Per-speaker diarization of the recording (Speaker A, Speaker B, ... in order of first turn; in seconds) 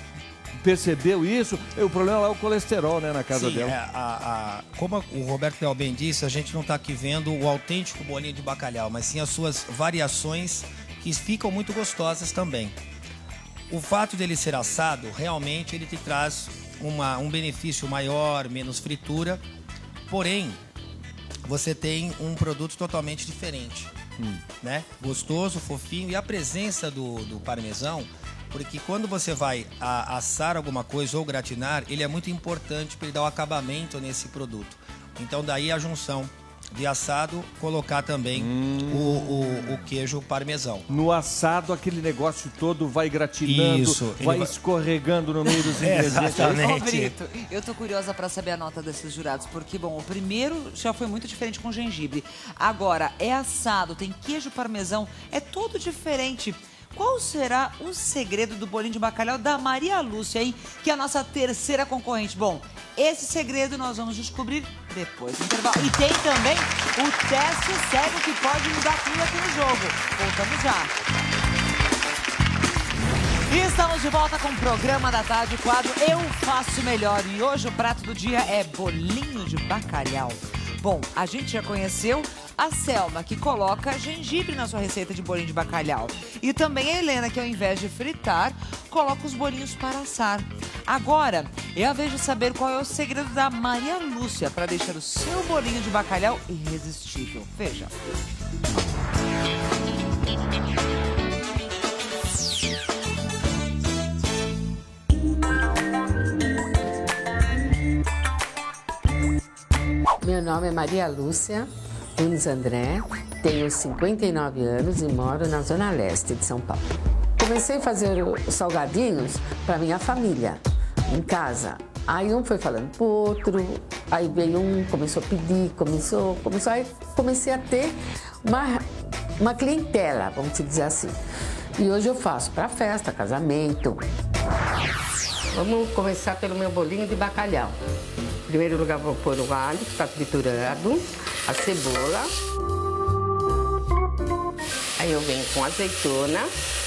Speaker A: 0.6-3.8, 38.4-39.7, 40.9-46.6
Speaker B: 3.3-12.8, 13.7-19.4, 20.1-20.6, 21.4-23.9, 24.6-40.9, 43.5-44.5, 45.8-47.1
Speaker C: 46.2-70.9, 73.5-97.9
Speaker D: 110.2-128.8, 129.4-131.2, 131.8-134.0, 135.5-137.8, 138.5-142.3, 145.0-146.5